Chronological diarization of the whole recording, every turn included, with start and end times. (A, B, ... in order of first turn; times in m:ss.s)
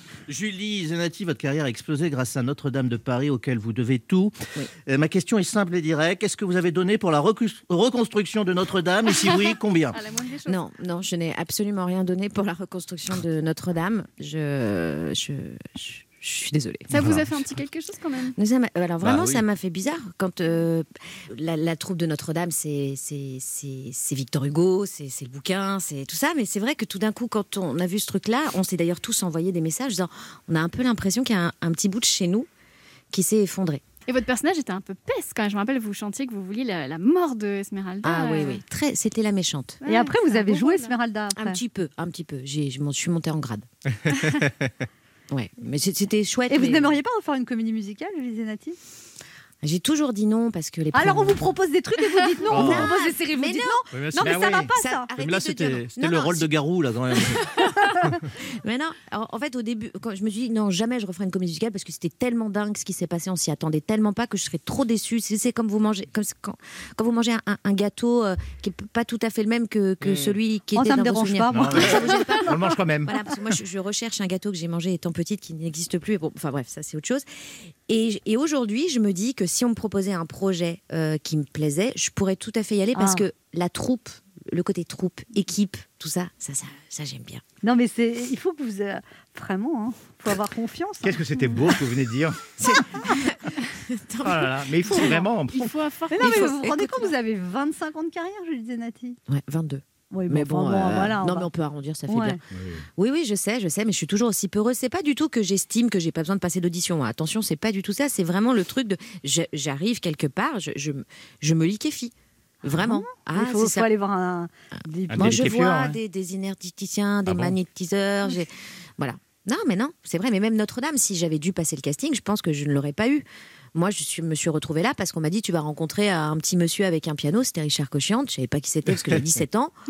0:00.3-0:10.0 A
0:09.9-0:10.6 B
0:10.4-0:17.0 C
0:16.9-0:18.3 B
0:18.4-0:32.5 C
0:19.0-0:19.4 A
0:33.1-0:33.8 C
0:34.1-0:38.6 B
0:38.0-0:39.8 C
0:39.8-0:40.9 B
0:39.8-0:41.6 D
0:41.3-0:43.6 C
0:45.3-0:47.0 C
0:46.5-0:48.8 D
0:49.6-0:51.5 C
0:50.9-0:55.1 D
0:52.5-0:56.5 C
0:52.5-0:52.9 A
0:53.9-0:54.6 A
0:54.2-0:54.7 E
0:55.1-0:57.5 A
0:57.7-0:58.2 D
0:58.3-1:17.3 C
1:10.7-1:12.2 D
1:11.5-1:13.1 E
1:17.9-1:27.4 C
1:22.9-1:23.2 D
1:27.6-1:31.2 D
1:31.0-1:32.6 E
1:32.6-1:35.2 C
1:34.2-1:35.8 E
1:35.5-1:36.5 B
1:36.1-1:39.2 D
1:36.2-1:37.1 C
1:39.3-1:42.4 C
1:40.1-1:41.5 D
1:42.1-1:42.4 D
1:42.5-1:42.8 E
1:43.0-1:53.9 C
1:52.6-1:55.5 D
1:55.1-1:56.0 E
1:55.1-2:09.7 C
1:57.2-1:57.5 E